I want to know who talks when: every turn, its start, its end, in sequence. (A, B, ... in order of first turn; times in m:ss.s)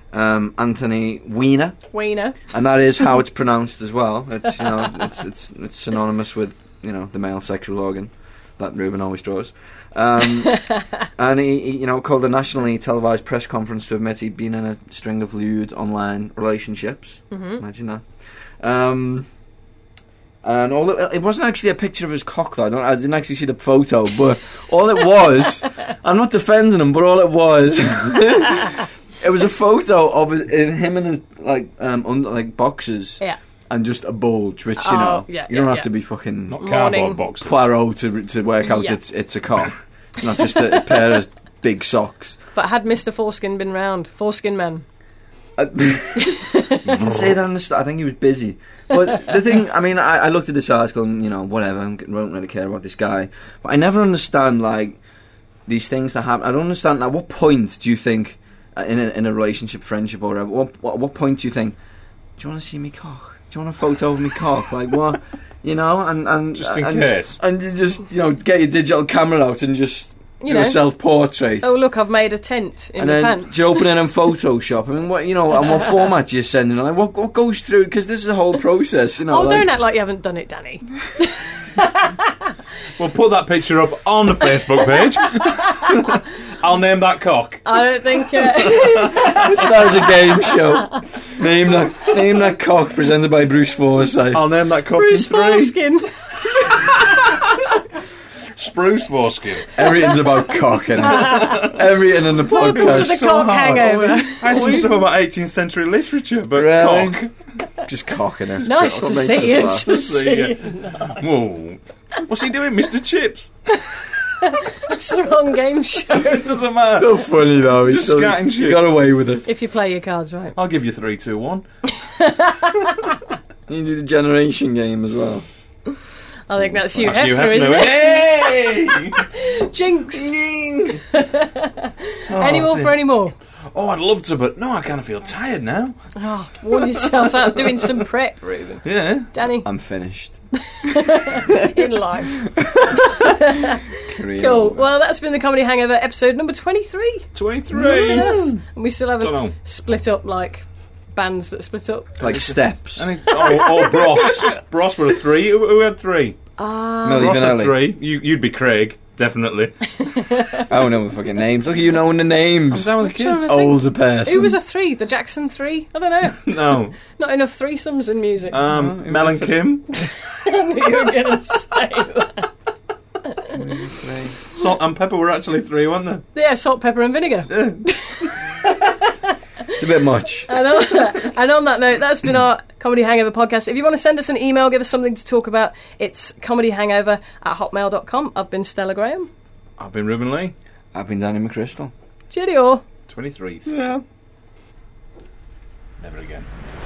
0:00.1-0:01.8 A
0:01.9-0:02.4 B
0:02.5-0:18.0 A
0:17.3-0:17.6 B
0:18.6-0:19.3 A
0:20.4-0:36.6 A
0:34.8-0:35.9 B
0:36.5-0:37.5 C
0:36.6-0:37.2 B
0:37.4-0:42.4 A
0:38.7-0:39.0 B
0:42.6-0:44.8 B
0:45.6-0:55.0 A
0:46.2-0:46.9 B
0:55.7-1:01.7 A
1:02.4-1:11.7 A
1:06.6-1:07.4 C
1:10.4-1:10.8 B
1:11.6-1:13.8 B
1:13.0-1:19.7 A
1:19.3-1:22.3 B
1:23.0-1:27.6 C
1:27.6-1:31.0 B
1:28.5-1:29.4 C
1:29.1-1:34.4 A
1:34.3-1:35.8 C
1:34.9-1:36.2 B
1:36.8-1:37.6 C
1:38.6-1:39.8 C
1:39.7-1:43.2 A
1:41.0-1:41.8 B
1:41.2-1:41.7 C
1:42.4-1:44.9 B
1:42.5-1:47.3 C
1:46.6-1:47.2 A
1:47.8-1:49.9 A
1:48.6-1:51.2 B
1:49.6-1:53.5 C
1:54.4-1:56.5 B
1:56.2-1:58.8 C
1:56.9-1:59.4 A
1:59.4-2:00.6 B
2:00.6-2:01.6 C
2:02.1-2:03.1 B
2:03.7-2:05.4 A
2:06.5-2:08.2 B
2:06.5-2:07.3 A
2:07.0-2:09.2 C
2:09.3-2:10.3 B
2:10.1-2:11.0 A
2:10.9-2:13.4 B
2:12.3-2:13.0 C
2:13.7-2:15.9 C
2:16.2-2:19.7 B
2:16.7-2:17.9 C
2:18.8-2:19.3 C
2:19.6-2:20.4 A
2:20.8-2:22.5 B
2:22.6-2:23.3 A
2:23.0-2:32.2 B
2:24.1-2:24.9 A
2:27.4-2:28.4 C
2:27.8-2:28.5 A
2:29.2-2:29.5 C
2:32.2-2:33.1 A
2:32.2-2:36.4 C
2:33.4-2:34.3 B
2:36.6-2:37.4 B
2:37.0-2:37.9 A
2:37.1-2:39.8 C
2:40.0-2:40.7 B
2:40.7-2:44.6 A
2:42.7-2:43.6 C
2:43.0-2:48.6 B
2:46.4-2:46.9 C
2:48.5-2:49.9 C
2:48.6-2:49.6 A
2:49.9-2:52.5 B
2:53.6-2:54.4 A
2:54.5-2:56.2 C
2:56.4-2:59.7 B
2:57.5-2:57.8 C
2:59.8-3:00.5 A
3:00.5-3:09.3 B
3:09.8-3:10.5 C
3:10.9-3:11.9 A
3:12.3-3:12.8 B
3:13.1-3:13.7 C
3:13.6-3:14.0 A
3:16.0-3:16.5 C